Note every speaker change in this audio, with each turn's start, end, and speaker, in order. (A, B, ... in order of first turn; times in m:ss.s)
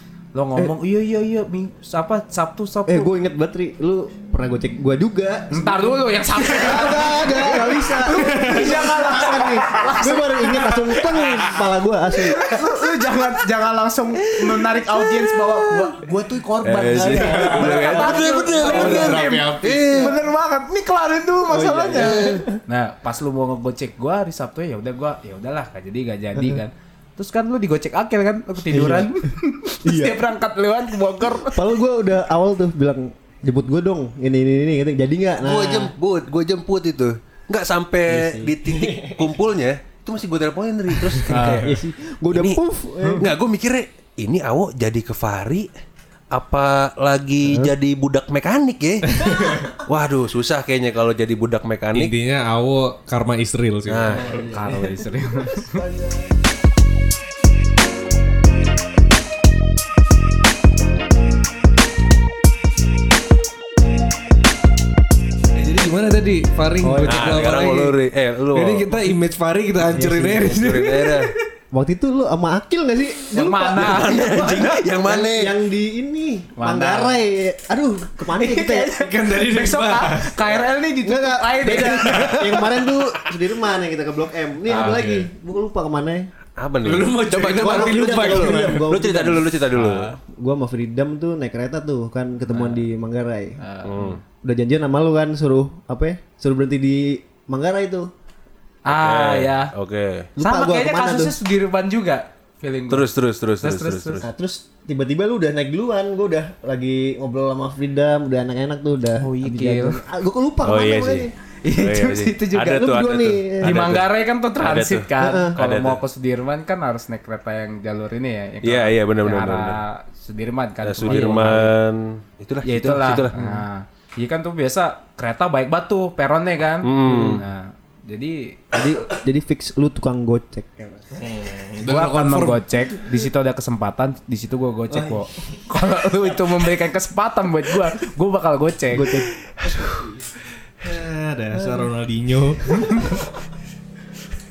0:00.3-0:03.1 A
0:02.9-0:12.4 B
0:05.5-0:11.4 A
0:12.1-0:31.7 A
0:16.6-0:20.2 C
0:16.8-0:19.1 B
0:18.5-0:20.0 D
0:21.5-0:22.6 B
0:22.0-0:22.2 C
0:28.7-0:29.2 B
0:29.8-0:30.2 B
0:31.4-0:35.9 B
0:35.4-0:41.8 C
0:38.1-0:39.3 B
0:41.3-0:41.6 A
0:41.3-0:41.8 D
0:41.3-0:43.3 B
0:42.3-0:42.6 C
0:43.2-0:45.7 C
0:46.3-0:52.1 C
0:47.4-0:47.7 B
0:49.2-0:49.7 D
0:51.9-0:54.4 D
0:53.9-0:54.5 C
0:54.1-0:56.3 B
0:54.4-0:55.8 A
1:05.6-1:08.0 D
1:06.8-1:07.5 B
1:07.0-1:09.0 C
1:08.5-1:11.4 D
1:09.9-1:10.5 B
1:10.3-1:11.3 C
1:11.7-1:19.0 B
1:13.3-1:14.8 A
1:13.8-1:15.5 C
1:16.6-1:17.2 A
1:18.2-1:22.8 A
1:19.1-1:20.4 D
1:21.0-1:26.3 B
1:24.7-1:25.0 A
1:24.7-1:25.3 D
1:26.6-1:30.2 C
1:26.8-1:29.0 D
1:27.5-1:29.6 B
1:29.7-1:30.0 A
1:30.3-1:33.6 B
1:32.5-1:32.8 A
1:33.6-1:34.2 A
1:33.8-1:34.2 C
1:34.4-1:38.1 B
1:38.8-1:39.7 A
1:38.9-1:40.3 C
1:40.4-1:41.4 B
1:40.4-1:44.2 A
1:42.9-1:44.3 C
1:44.2-1:51.3 B
1:49.2-1:50.0 A
1:50.6-1:56.0 C
1:51.6-1:53.0 A
1:52.6-1:53.9 B
1:53.6-2:01.7 A
1:55.2-1:55.6 B
1:58.6-1:59.8 C
2:00.8-2:03.3 C
2:02.6-2:08.6 A
2:06.8-2:07.4 C
2:07.1-2:07.4 B
2:08.7-2:11.2 B
2:11.1-2:12.6 D
2:11.8-2:19.2 A
2:14.9-2:15.2 B
2:18.9-2:19.3 B
2:19.7-2:20.0 C
2:20.8-2:23.2 D
2:22.8-2:23.0 A